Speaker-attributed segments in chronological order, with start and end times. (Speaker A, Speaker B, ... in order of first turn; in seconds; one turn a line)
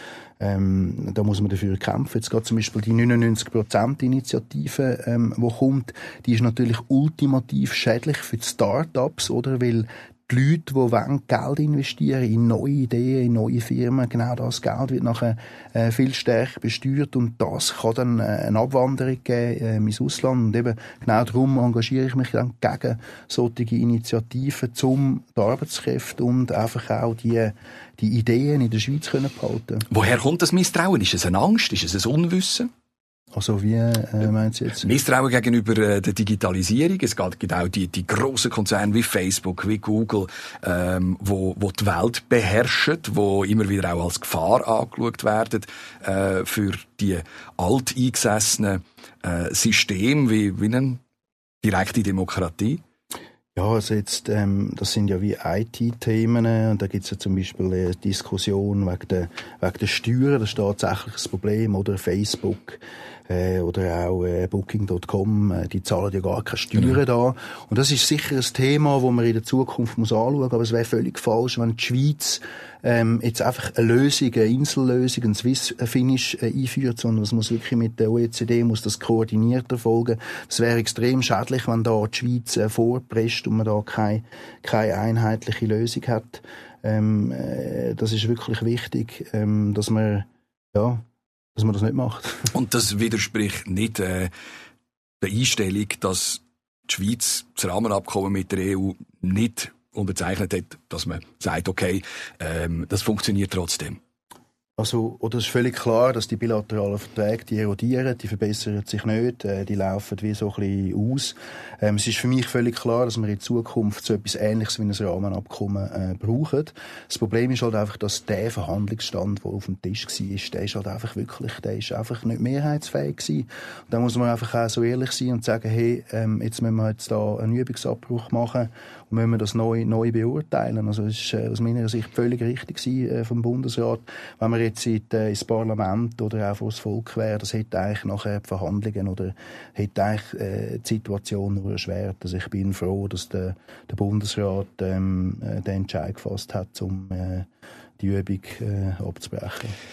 Speaker A: 0.4-29.9
Speaker B: 29.9-32.7
Speaker A: 33.3-34.9
Speaker B: 34.8-51.0
Speaker B: 51.6-52.8
Speaker A: 53.5-92.5
Speaker B: 92.5-94.3
Speaker B: 95.2-104.0
Speaker A: 104.8-147.5
Speaker A: 148.0-149.8